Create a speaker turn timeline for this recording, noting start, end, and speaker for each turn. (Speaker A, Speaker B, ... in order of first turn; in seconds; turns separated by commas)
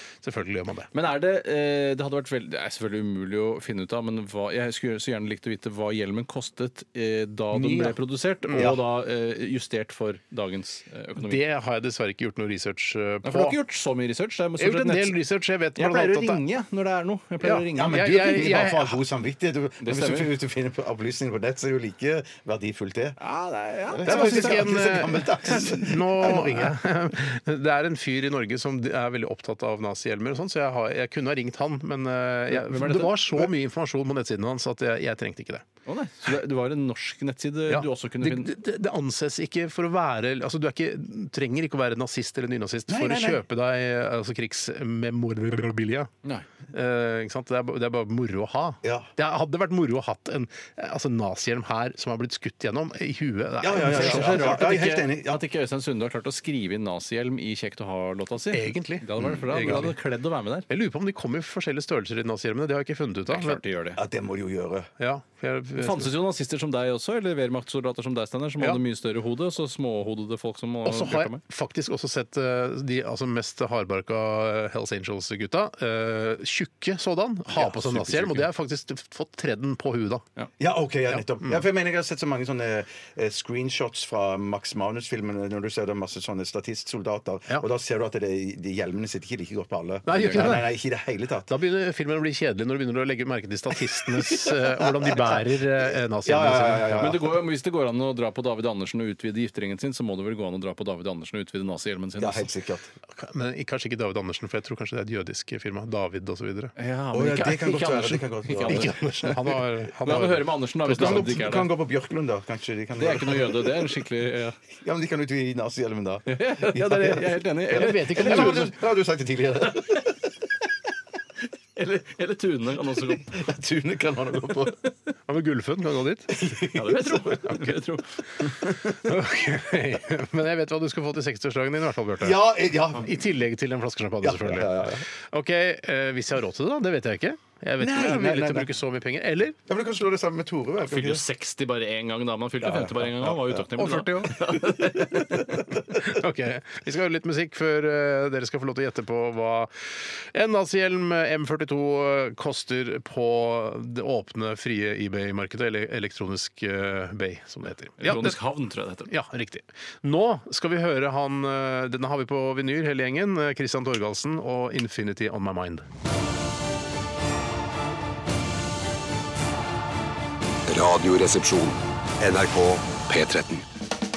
Speaker A: 0.2-0.9, Speaker B: 0.9-11.4, Speaker A: 7.5-8.7, Speaker C: 8.5-8.8, Speaker A: 11.2-13.6, Speaker B: 13.2-15.2, Speaker A: 14.6-16.4, Speaker B: 15.8-18.1, Speaker A: 17.4-19.0, Speaker C: 17.7-23.2, Speaker B: 19.8-20.3, Speaker B: 23.2-24.7, Speaker C: 23.9-26.8, Speaker A: 24.0-35.6, Speaker B: 32.5-33.2, Speaker B: 35.9-38.5, Speaker A: 37.7-46.1, Speaker C: 42.9-43.4, Speaker A: 46.7-54.5, Speaker C: 48.8-49.1, Speaker C: 53.6-55.4, Speaker B: 53.8-60.6, Speaker A: 58.5-59.9, Speaker C: 59.2-59.9, Speaker A: 60.7-63.6, Speaker B: 63.3-64.0, Speaker C: 64.0-64.9, Speaker A: 65.0-66.1, Speaker B: 65.8-71.4, Speaker A: 70.8-80.2, Speaker C: 77.5-78.5, Speaker C: 80.6-91.5, Speaker A: 81.1-81.6, Speaker A: 90.0-90.7, Speaker B: 90.1-90.5, Speaker A: 91.5-97.2, Speaker C: 94.3-95.5, Speaker C: 96.2-97.3, Speaker B: 97.0-102.5, Speaker C: 102.2-102.9, Speaker A: 103.1-106.7, Speaker B: 106.8-109.4, Speaker C: 107.1-109.0, Speaker A: 108.6-111.5, Speaker B: 110.0-111.7, Speaker C: 110.9-114.0, Speaker B: 113.0-114.6, Speaker C: 114.8-120.3, Speaker B: 116.3-118.6, Speaker A: 117.7-118.7, Speaker B: 121.8-123.3, Speaker C: 123.0-124.8, Speaker A: 125.3-126.4, Speaker C: 126.3-127.3, Speaker B: 126.7-128.5, Speaker A: 129.0-139.6, Speaker C: 132.2-133.1, Speaker C: 134.2-135.0, Speaker C: 137.8-138.7, Speaker C: 139.7-141.2, Speaker B: 140.8-145.6, Speaker C: 142.6-143.6, Speaker A: 143.8-144.6, Speaker A: 145.9-158.4, Speaker B: 158.0-159.1, Speaker A: 159.1-165.8, Speaker D: 170.7-173.7